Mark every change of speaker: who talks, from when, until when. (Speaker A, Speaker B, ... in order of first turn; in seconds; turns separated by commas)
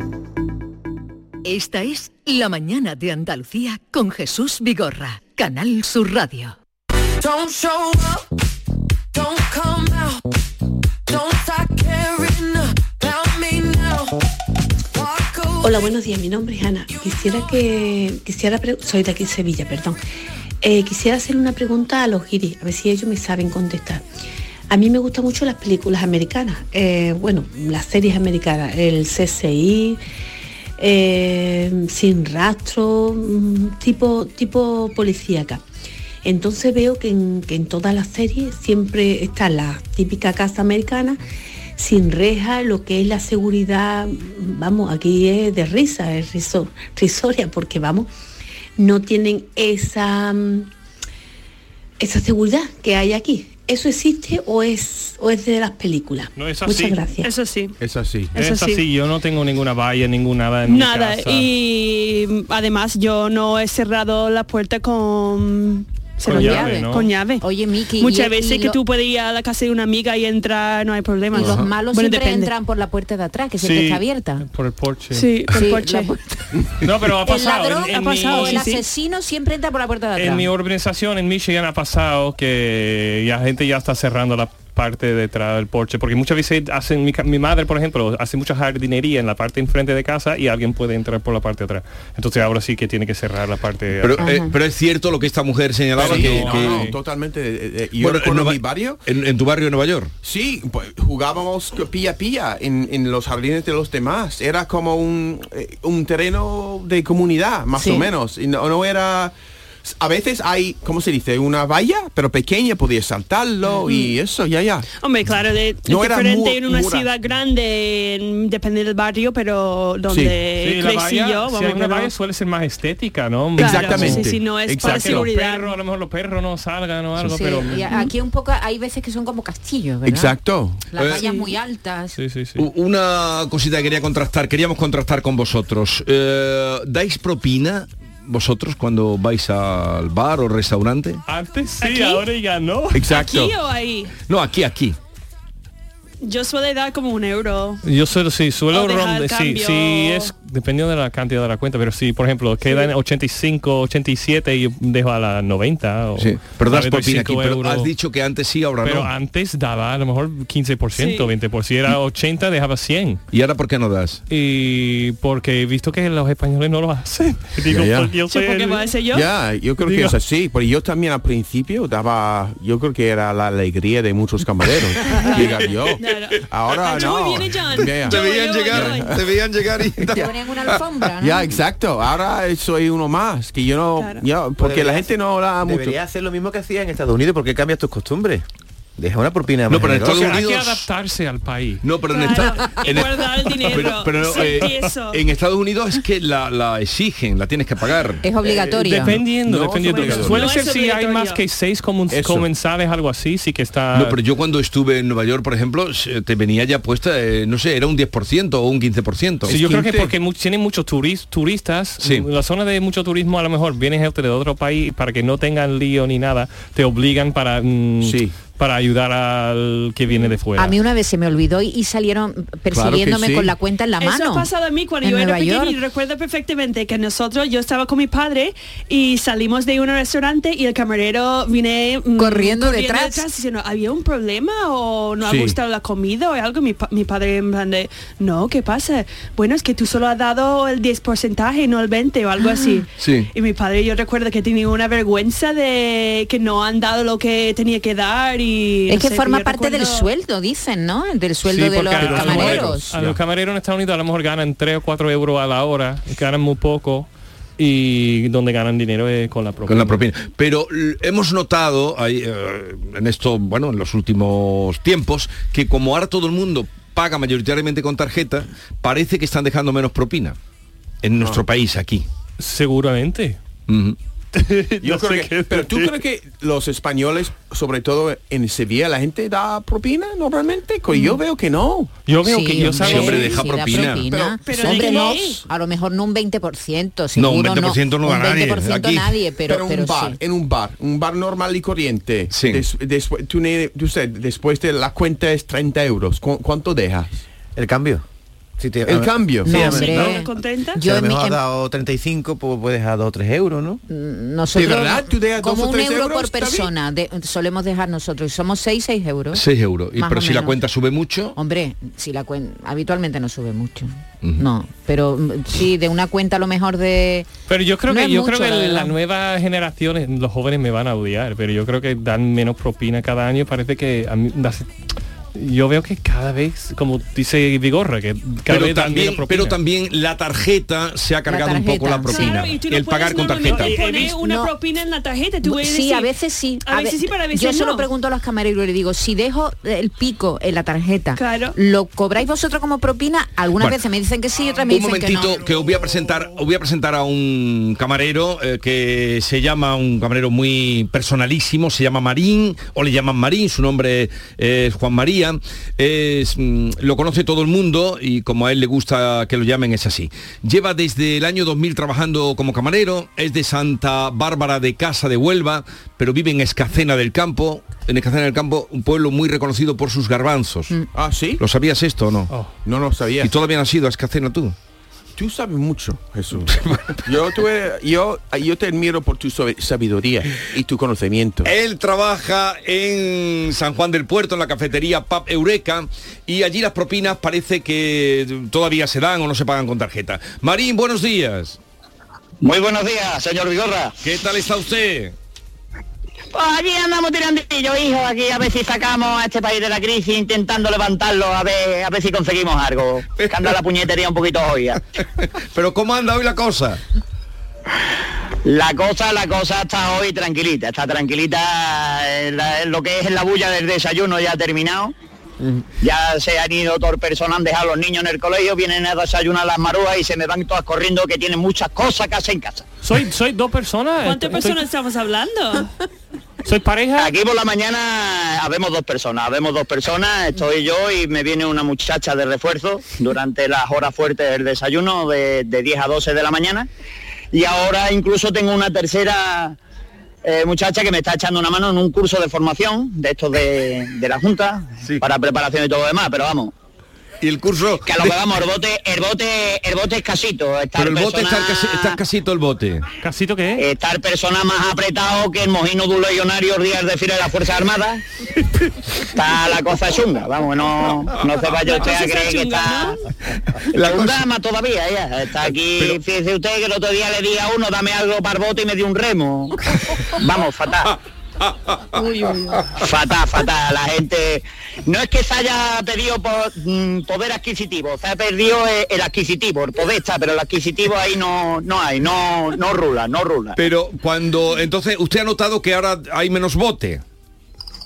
Speaker A: 1.4-6.5, Speaker B: 7.2-8.2, Speaker B: 9.2-10.1, Speaker B: 11.1-14.1, Speaker B: 15.0-15.6, Speaker C: 15.6-20.0, Speaker C: 20.6-24.0, Speaker C: 24.7-30.0, Speaker C: 30.8-35.6, Speaker C: 36.2-41.2, Speaker C: 41.8-48.1, Speaker C: 48.8-50.7, Speaker C: 52.0-57.3, Speaker D: 56.4-57.0, Speaker E: 57.2-57.7, Speaker F: 57.8-58.3, Speaker E: 58.3-58.8, Speaker D: 58.4-61.5, Speaker E: 60.6-72.5, Speaker G: 66.2-68.8, Speaker D: 66.2-67.1, Speaker G: 71.3-74.4, Speaker D: 73.6-75.3, Speaker E: 75.1-76.2, Speaker G: 75.5-76.2, Speaker D: 76.8-78.8, Speaker G: 77.2-80.5, Speaker E: 77.6-78.8, Speaker D: 80.1-94.2, Speaker H: 94.0-96.9, Speaker G: 94.2-94.5, Speaker D: 96.0-96.9, Speaker F: 96.0-99.0, Speaker H: 98.0-100.1, Speaker F: 100.2-114.8, Speaker G: 107.7-108.1, Speaker E: 113.7-114.1, Speaker E: 115.0-122.1, Speaker F: 115.8-117.1, Speaker F: 120.1-120.4, Speaker D: 120.6-127.9, Speaker F: 123.6-125.3, Speaker E: 123.6-125.7, Speaker G: 127.2-130.4, Speaker F: 130.0-130.8, Speaker G: 130.9-132.2, Speaker H: 130.9-131.2, Speaker E: 131.1-131.5, Speaker D: 132.1-132.7, Speaker H: 132.6-141.2, Speaker D: 141.3-143.1, Speaker E: 141.8-142.2, Speaker F: 142.9-143.5, Speaker E: 143.1-144.1, Speaker H: 144.3-144.9, Speaker E: 146.2-147.8, Speaker D: 147.8-157.9, Speaker E: 148.7-150.3, Speaker H: 156.2-159.1, Speaker D: 158.8-163.2, Speaker E: 160.9-161.3, Speaker H: 163.3-164.2, Speaker D: 164.3-168.9, Speaker F: 167.7-168.1, Speaker E: 168.3-169.3, Speaker F: 169.1-179.2, Speaker D: 169.8-170.2, Speaker E: 175.1-179.2, Speaker H: 178.0-180.9, Speaker F: 180.0-180.3, Speaker G: 180.0-181.5, Speaker F: 181.2-186.0, Speaker E: 184.0-184.2, Speaker I: 184.6-188.4, Speaker I: 189.0-190.4, Speaker H: 189.7-190.8, Speaker D: 190.0-191.8, Speaker H: 191.8-198.2, Speaker E: 192.1-195.2, Speaker D: 194.3-194.8, Speaker G: 198.2-199.2, Speaker F: 198.4-198.8, Speaker D: 198.7-204.2, Speaker F: 199.4-200.5, Speaker E: 199.8-201.4, Speaker F: 202.1-202.5, Speaker H: 203.9-209.5, Speaker F: 209.4-210.1, Speaker D: 209.4-220.7, Speaker H: 212.0-212.3, Speaker F: 218.0-218.3, Speaker G: 220.6-224.5, Speaker F: 222.7-223.5, Speaker E: 224.0-250.1, Speaker G: 225.0-225.8, Speaker G: 232.2-233.2, Speaker F: 235.2-235.6, Speaker G: 242.4-242.8, Speaker H: 243.0-243.3, Speaker G: 248.9-252.9, Speaker D: 251.4-260.0, Speaker H: 252.0-252.7, Speaker H: 259.7-270.4, Speaker H: 271.0-272.1, Speaker F: 271.1-271.4, Speaker D: 272.4-273.4, Speaker H: 273.7-274.0, Speaker D: 274.3-276.0, Speaker F: 274.8-281.9, Speaker G: 280.9-281.2, Speaker D: 282.1-283.3, Speaker G: 282.1-290.2, Speaker H: 282.7-284.1, Speaker F: 283.7-285.1, Speaker E: 284.2-285.4, Speaker H: 287.1-289.2, Speaker F: 289.4-297.2, Speaker H: 292.3-292.6, Speaker I: 297.6-298.0, Speaker I: 298.6-300.1, Speaker F: 298.9-300.0, Speaker G: 299.4-301.4, Speaker E: 299.5-300.8, Speaker I: 300.8-303.8, Speaker G: 303.9-309.4, Speaker F: 304.5-306.7, Speaker H: 309.3-311.4, Speaker G: 309.9-310.6, Speaker G: 311.4-317.3, Speaker D: 317.5-324.7, Speaker G: 317.9-318.9, Speaker D: 325.3-329.6, Speaker H: 328.5-333.8, Speaker G: 331.2-332.4, Speaker E: 332.1-336.1, Speaker D: 333.4-334.1, Speaker G: 334.0-334.5, Speaker G: 335.4-345.4, Speaker E: 336.6-337.9, Speaker E: 341.1-341.6, Speaker H: 343.6-343.8, Speaker H: 344.6-370.8, Speaker F: 370.9-371.4, Speaker H: 371.4-372.3, Speaker F: 372.6-373.3, Speaker H: 373.2-374.5, Speaker F: 375.1-381.5, Speaker H: 376.5-377.0, Speaker H: 381.4-391.6, Speaker J: 392.4-393.9, Speaker H: 394.0-395.1, Speaker J: 396.3-404.8, Speaker H: 403.2-403.6, Speaker H: 405.2-406.8, Speaker J: 408.4-414.9, Speaker J: 415.8-422.6, Speaker D: 422.8-424.6, Speaker E: 424.0-425.7, Speaker D: 426.4-427.1, Speaker J: 426.9-436.7, Speaker J: 437.3-439.6, Speaker J: 440.2-446.5, Speaker H: 447.2-448.2, Speaker J: 447.8-452.0, Speaker H: 450.7-452.8, Speaker D: 453.0-453.6, Speaker J: 453.6-458.0, Speaker J: 459.1-462.9, Speaker E: 461.5-463.0, Speaker H: 463.7-464.2, Speaker J: 463.7-469.6, Speaker J: 470.1-470.9, Speaker J: 472.8-483.6, Speaker H: 483.6-487.0